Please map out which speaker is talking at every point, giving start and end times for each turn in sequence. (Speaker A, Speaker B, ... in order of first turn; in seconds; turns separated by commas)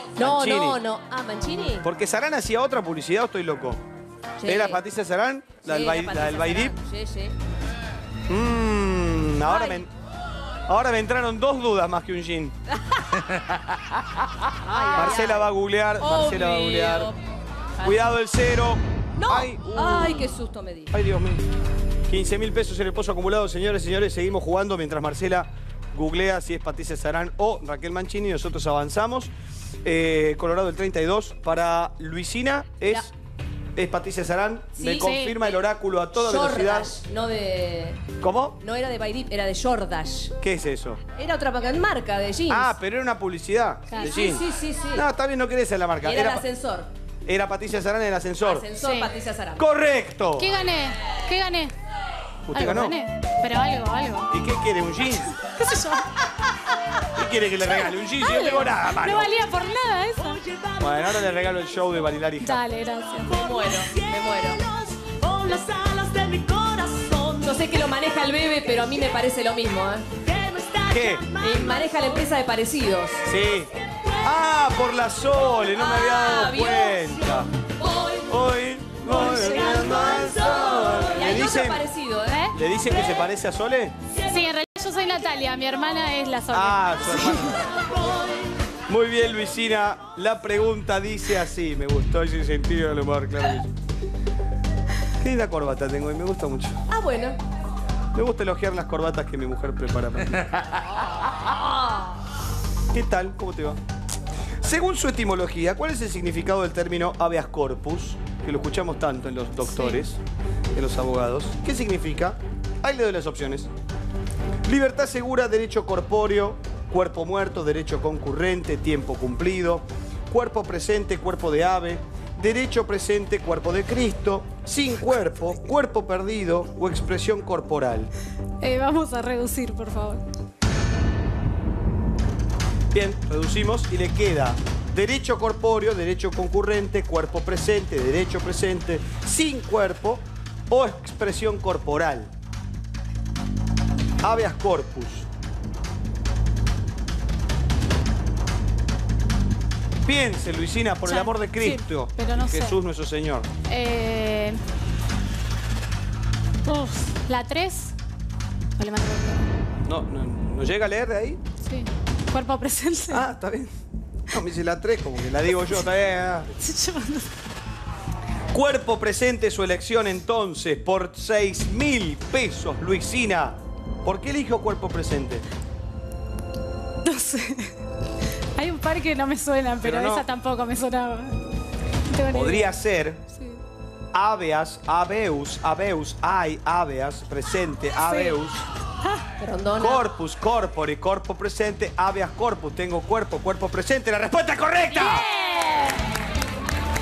Speaker A: 0.2-0.8, Speaker B: 0.2-1.9, Speaker A: 1.8-3.8, Speaker B: 4.4-4.8, Speaker A: 4.4-6.7, Speaker B: 5.6-7.3, Speaker A: 8.3-9.9, Speaker B: 9.4-9.8, Speaker A: 10.7-12.6, Speaker B: 12.8-13.1, Speaker B: 14.7-17.2, Speaker A: 14.9-17.1, Speaker B: 17.8-18.1, Speaker A: 17.8-20.4, Speaker B: 19.2-20.9, Speaker A: 20.9-21.4, Speaker A: 22.1-29.3, Speaker A: 29.8-33.1, Speaker A: 33.7-36.9, Speaker B: 34.8-35.6, Speaker C: 34.9-35.4, Speaker B: 36.1-38.0, Speaker A: 38.2-38.6, Speaker B: 38.6-40.3, Speaker A: 40.4-41.0, Speaker B: 41.1-42.7, Speaker A: 42.5-46.5, Speaker C: 43.9-44.2, Speaker B: 44.0-45.0, Speaker B: 46.0-46.9, Speaker A: 47.2-48.7, Speaker B: 48.4-49.6, Speaker C: 48.7-49.1, Speaker A: 49.6-50.5, Speaker C: 50.4-51.7, Speaker A: 52.5-53.0, Speaker C: 52.5-54.3, Speaker A: 54.3-55.3, Speaker C: 55.3-56.3, Speaker A: 57.1-59.3, Speaker C: 58.2-60.4, Speaker D: 60.2-61.6, Speaker A: 60.8-62.6, Speaker C: 62.4-63.4, Speaker D: 63.2-67.7, Speaker B: 63.3-64.6, Speaker B: 67.4-70.1, Speaker D: 70.2-72.3, Speaker A: 70.9-71.2, Speaker B: 71.4-73.2, Speaker A: 73.2-73.7, Speaker D: 73.9-74.3, Speaker A: 74.2-77.5, Speaker B: 75.5-77.2, Speaker B: 77.8-78.3, Speaker A: 78.2-81.8, Speaker C: 79.1-80.2, Speaker B: 79.1-82.5, Speaker D: 80.1-81.0, Speaker C: 82.3-82.6, Speaker A: 82.5-84.0, Speaker C: 84.2-87.5, Speaker A: 86.5-87.7, Speaker A: 88.9-93.7, Speaker A: 95.2-96.8, Speaker B: 96.9-97.4, Speaker A: 98.1-100.4, Speaker B: 101.5-102.2, Speaker A: 102.9-103.8, Speaker A: 104.6-110.2, Speaker C: 109.7-110.0, Speaker A: 110.7-113.7, Speaker A: 114.6-128.1, Speaker C: 128.6-130.2, Speaker A: 132.9-142.3, Speaker A: 144.2-145.3, Speaker A: 150.1-153.5, Speaker C: 151.0-152.8, Speaker C: 153.7-154.6, Speaker C: 156.6-157.9, Speaker C: 158.8-159.5, Speaker A: 159.8-161.4, Speaker C: 161.6-163.3, Speaker A: 163.1-163.7, Speaker A: 164.3-166.5, Speaker C: 166.6-167.3, Speaker A: 168.5-175.4, Speaker C: 177.0-177.8, Speaker C: 178.6-181.4, Speaker A: 179.8-180.2, Speaker C: 182.1-182.8, Speaker A: 182.3-183.2, Speaker C: 183.3-183.6, Speaker A: 184.1-188.6, Speaker C: 188.1-188.4, Speaker B: 189.4-190.1, Speaker A: 189.8-195.2, Speaker B: 194.9-196.0